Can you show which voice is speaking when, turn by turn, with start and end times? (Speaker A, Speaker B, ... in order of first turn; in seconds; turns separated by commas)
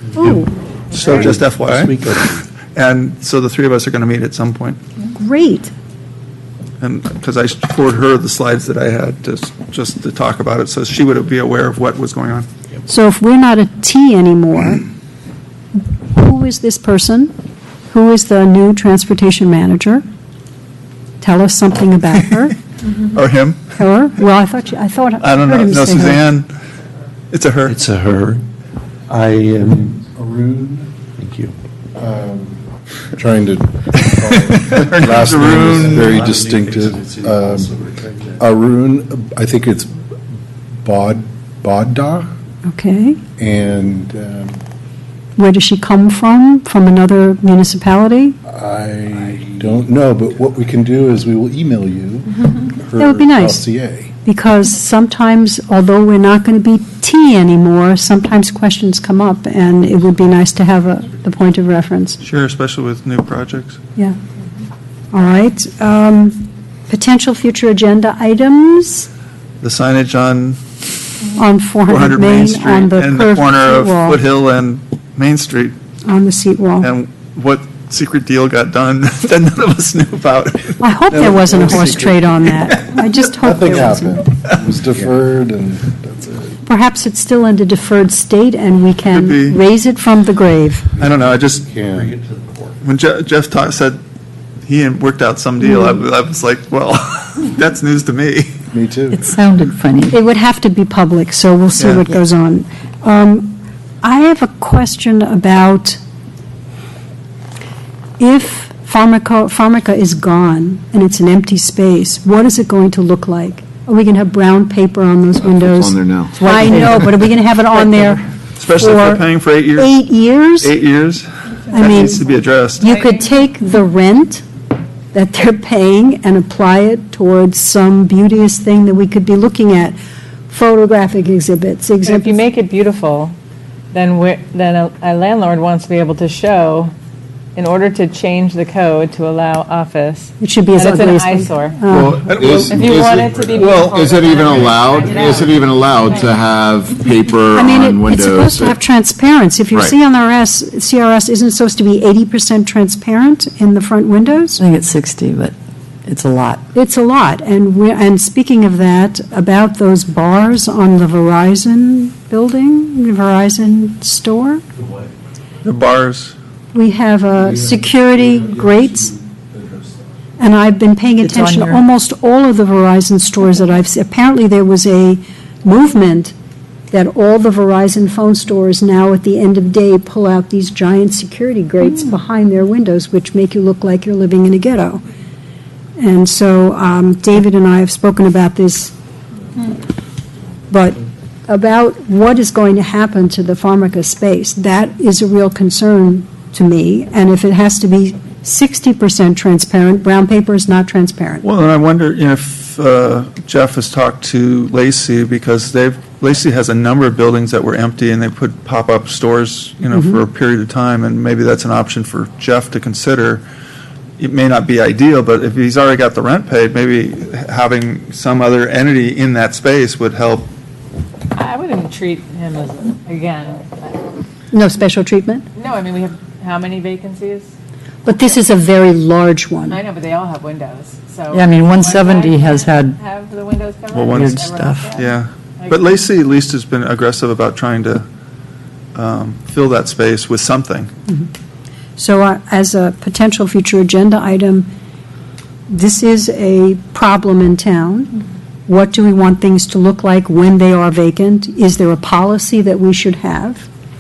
Speaker A: 0.2-0.5, Speaker B: 0.9-4.8, Speaker C: 1.1-2.4, Speaker A: 5.2-5.7, Speaker B: 6.8-12.5, Speaker A: 12.9-14.8, Speaker A: 16.1-17.3, Speaker A: 17.9-20.1, Speaker A: 21.2-22.6, Speaker B: 23.0-23.7, Speaker A: 23.8-26.2, Speaker B: 25.2-26.5, Speaker B: 27.3-27.8, Speaker C: 27.7-28.4, Speaker C: 29.1-29.8, Speaker D: 29.5-31.1, Speaker C: 31.2-31.5, Speaker D: 31.9-37.8, Speaker B: 34.1-36.1, Speaker C: 35.2-38.4, Speaker D: 38.4-39.9, Speaker D: 40.8-42.3, Speaker A: 42.7-43.2, Speaker D: 43.4-44.6, Speaker A: 45.4-48.4, Speaker D: 48.5-54.1, Speaker A: 53.0-53.6, Speaker A: 54.2-62.2, Speaker B: 62.2-63.8, Speaker A: 65.1-69.1, Speaker B: 69.6-70.6, Speaker A: 71.3-74.2, Speaker B: 71.9-75.7, Speaker A: 76.1-76.9, Speaker B: 76.8-80.8, Speaker A: 80.8-84.2, Speaker D: 81.1-82.5, Speaker D: 83.4-86.6, Speaker A: 86.7-90.9, Speaker B: 89.1-89.6, Speaker B: 91.0-91.7, Speaker C: 91.1-92.8, Speaker D: 91.5-92.2, Speaker B: 92.8-94.0, Speaker B: 94.6-98.5, Speaker A: 95.6-95.9, Speaker D: 98.7-99.2, Speaker E: 99.1-100.2, Speaker A: 100.1-106.0, Speaker B: 101.8-102.0, Speaker A: 108.2-120.7, Speaker F: 115.5-116.8, Speaker E: 116.4-117.2, Speaker E: 117.7-118.1, Speaker B: 118.6-119.9, Speaker B: 120.6-122.9, Speaker A: 121.7-122.2, Speaker A: 122.8-124.5, Speaker A: 125.1-130.0, Speaker A: 130.5-132.4, Speaker G: 132.0-133.3, Speaker G: 133.9-136.9, Speaker G: 137.6-141.8, Speaker A: 140.4-142.3, Speaker F: 141.9-148.8, Speaker B: 142.3-142.9, Speaker G: 142.7-146.3, Speaker B: 143.6-144.1, Speaker A: 147.5-154.6, Speaker E: 154.6-155.5, Speaker E: 156.1-156.6, Speaker A: 156.7-164.6, Speaker B: 165.6-166.3, Speaker A: 166.7-169.1, Speaker A: 170.4-176.3, Speaker E: 171.2-171.8, Speaker A: 176.9-185.0, Speaker A: 186.0-188.9, Speaker A: 190.7-201.4, Speaker B: 201.4-213.4, Speaker A: 209.9-210.2, Speaker B: 214.2-220.5, Speaker G: 221.3-224.1, Speaker A: 224.5-225.5, Speaker G: 225.6-227.5, Speaker A: 228.1-229.8, Speaker G: 229.7-235.1, Speaker E: 231.3-233.0, Speaker B: 233.9-234.4, Speaker E: 234.1-235.0, Speaker B: 235.0-238.1, Speaker G: 235.6-235.9, Speaker B: 238.9-240.9, Speaker A: 242.0-244.7, Speaker A: 245.7-253.7